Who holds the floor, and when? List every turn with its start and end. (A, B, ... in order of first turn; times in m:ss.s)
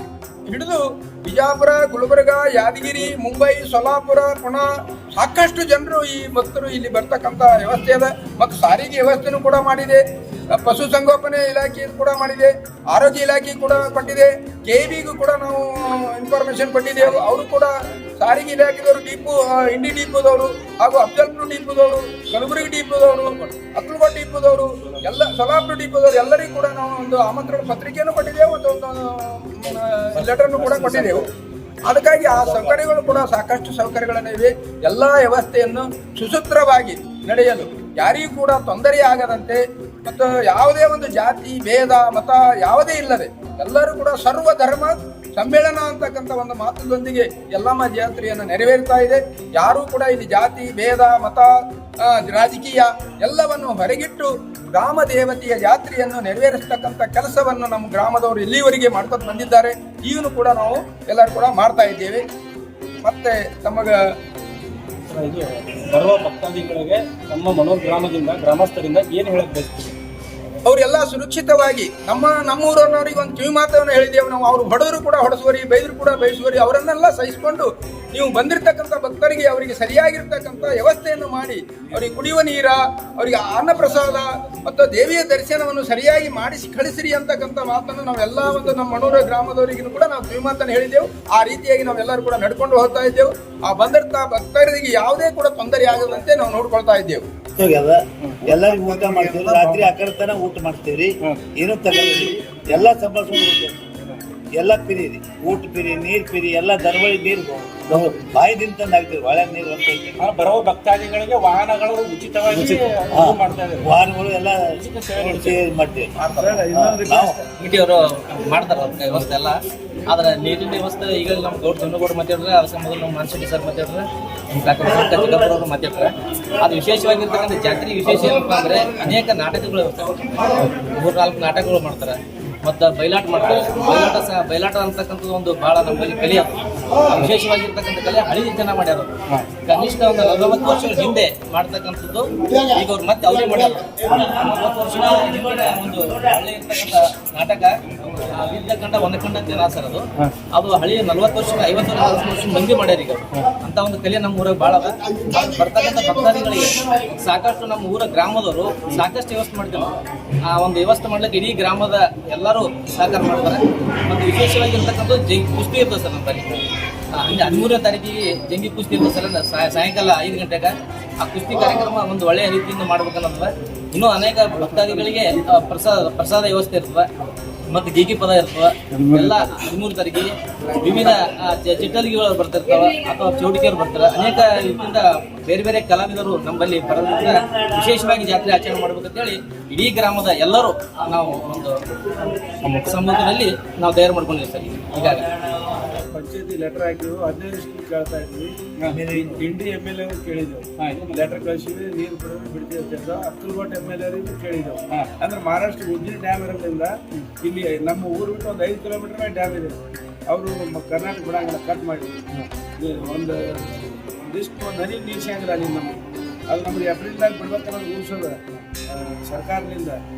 0:00.5-0:31.3 A
0:31.9-1:02.2 A
1:03.0-1:04.0 A
1:05.0-1:09.9 B
1:10.6-1:37.3 A
1:37.6-1:43.8 C
1:38.2-1:38.6 B
1:39.3-1:39.8 B
1:44.5-1:50.2 C
1:50.2-1:53.9 B
1:52.6-1:56.1 C
1:54.8-1:55.6 B
1:56.2-1:56.6 A
1:56.4-1:57.4 D
1:56.7-1:57.4 C
1:57.6-2:46.6 E
2:47.1-2:57.1 E
2:57.7-3:11.8 E
2:59.0-2:59.3 D
3:12.4-3:15.3 E
3:15.9-3:18.5 D
3:18.9-3:19.4 C
3:19.1-3:29.8 D
3:20.8-3:21.3 B
3:30.3-3:40.0 D